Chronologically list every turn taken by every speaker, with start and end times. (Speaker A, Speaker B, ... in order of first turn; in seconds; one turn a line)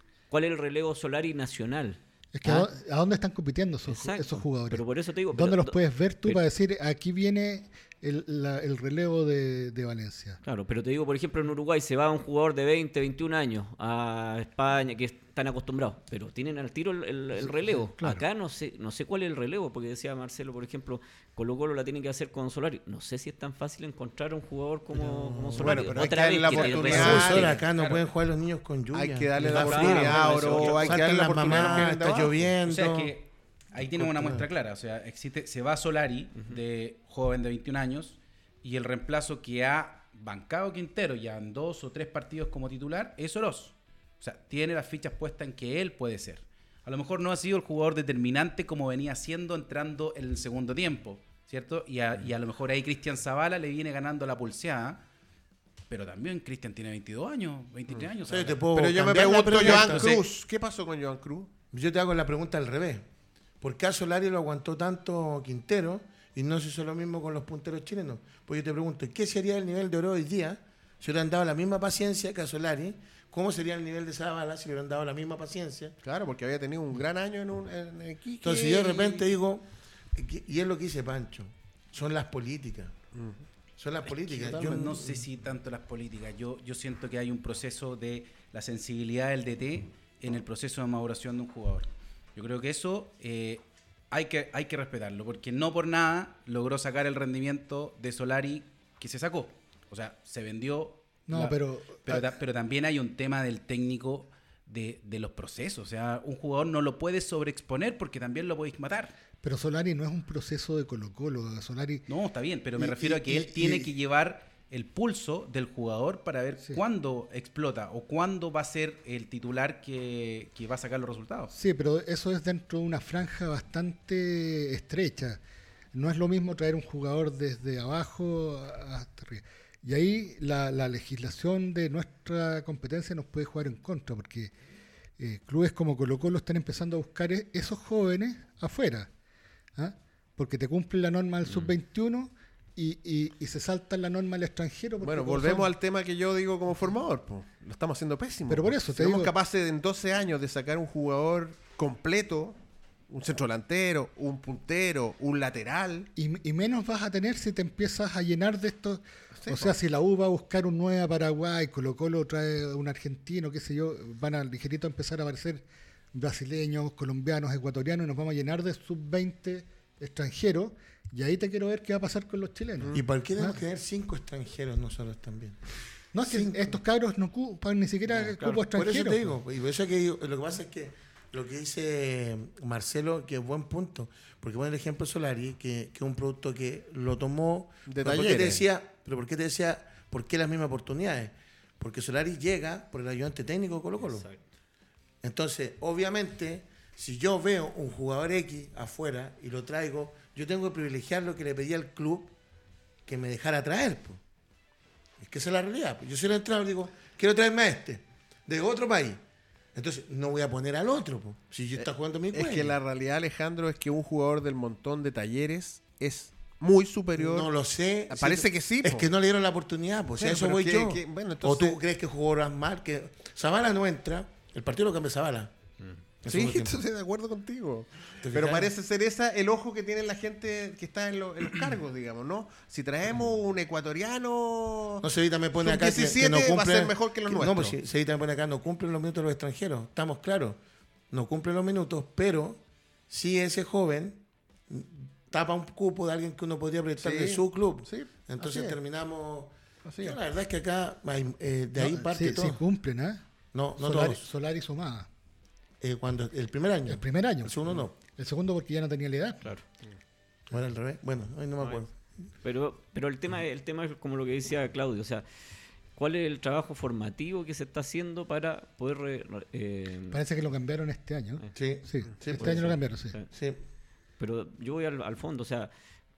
Speaker A: 0.3-2.7
Speaker B: 2.3-10.4
Speaker A: 3.9-6.4
Speaker A: 10.4-27.6
Speaker B: 17.5-18.2
Speaker C: 24.9-33.1
Speaker D: 25.5-27.6
Speaker E: 27.1-28.0
Speaker D: 28.9-32.5
Speaker A: 29.4-32.2
Speaker E: 32.6-55.0
Speaker C: 33.8-34.5
Speaker E: 55.9-58.6
Speaker C: 58.3-60.2
Speaker D: 58.7-61.5
Speaker E: 59.6-60.2
Speaker C: 61.7-63.0
Speaker C: 63.6-76.0
Speaker D: 76.0-79.3
Speaker C: 78.4-83.0
Speaker D: 83.1-83.4
Speaker C: 83.8-85.2
Speaker E: 84.2-109.1
Speaker B: 101.3-102.2
Speaker B: 109.4-112.1
Speaker E: 112.1-121.5
Speaker B: 112.8-113.9
Speaker B: 121.5-125.4
Speaker B: 125.9-134.5
Speaker B: 135.2-139.1
Speaker B: 139.8-145.7
Speaker D: 145.0-152.6
Speaker B: 148.5-149.3
Speaker D: 153.1-156.1
Speaker B: 156.2-173.6
Speaker D: 159.3-159.8
Speaker C: 172.9-176.8
Speaker B: 176.1-179.3
Speaker C: 178.3-194.3
Speaker D: 187.9-188.6
Speaker A: 194.0-194.4
Speaker C: 195.2-202.3
Speaker C: 203.1-204.2
Speaker C: 205.2-209.2
Speaker C: 209.7-212.8
Speaker D: 211.8-217.5
Speaker C: 217.2-225.5
Speaker D: 218.1-219.1
Speaker D: 220.2-221.8
Speaker C: 226.2-226.8
Speaker D: 226.3-235.1
Speaker C: 228.2-228.7
Speaker C: 235.0-240.6
Speaker D: 235.6-237.7
Speaker C: 241.1-252.6
Speaker D: 247.0-248.8
Speaker D: 249.8-250.2
Speaker B: 251.8-253.2
Speaker C: 253.5-254.2
Speaker B: 253.8-255.1
Speaker C: 255.8-257.9
Speaker B: 256.9-259.5
Speaker C: 260.5-261.9
Speaker A: 262.4-265.2
Speaker A: 265.9-270.2
Speaker B: 270.1-273.2
Speaker C: 271.5-272.8
Speaker A: 272.3-273.3
Speaker C: 273.3-273.6
Speaker A: 274.2-275.7